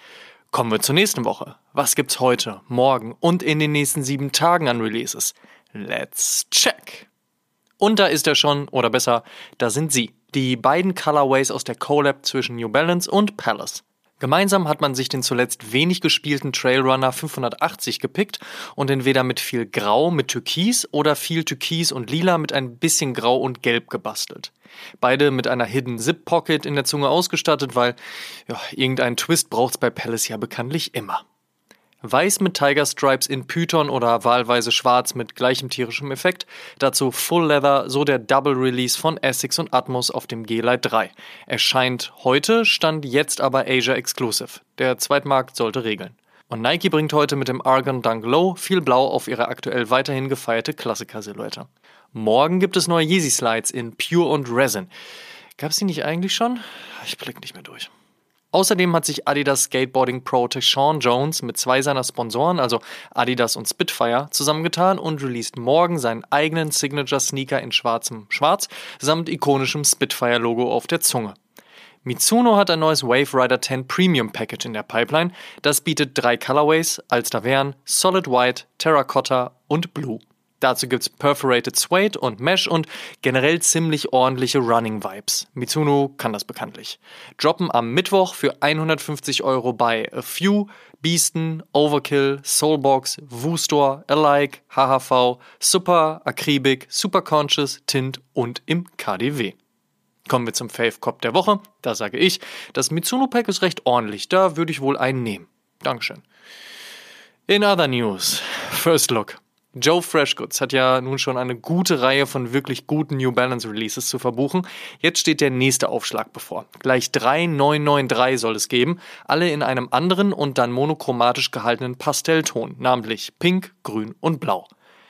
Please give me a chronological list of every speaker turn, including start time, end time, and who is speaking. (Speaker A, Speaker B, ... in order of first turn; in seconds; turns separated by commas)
Speaker A: 0.5-7.1, Speaker A: 7.8-31.2, Speaker A: 32.0-54.9, Speaker A: 55.6-57.9, Speaker A: 58.5-71.4, Speaker A: 72.0-99.6, Speaker A: 100.3-106.2, Speaker A: 107.5-124.7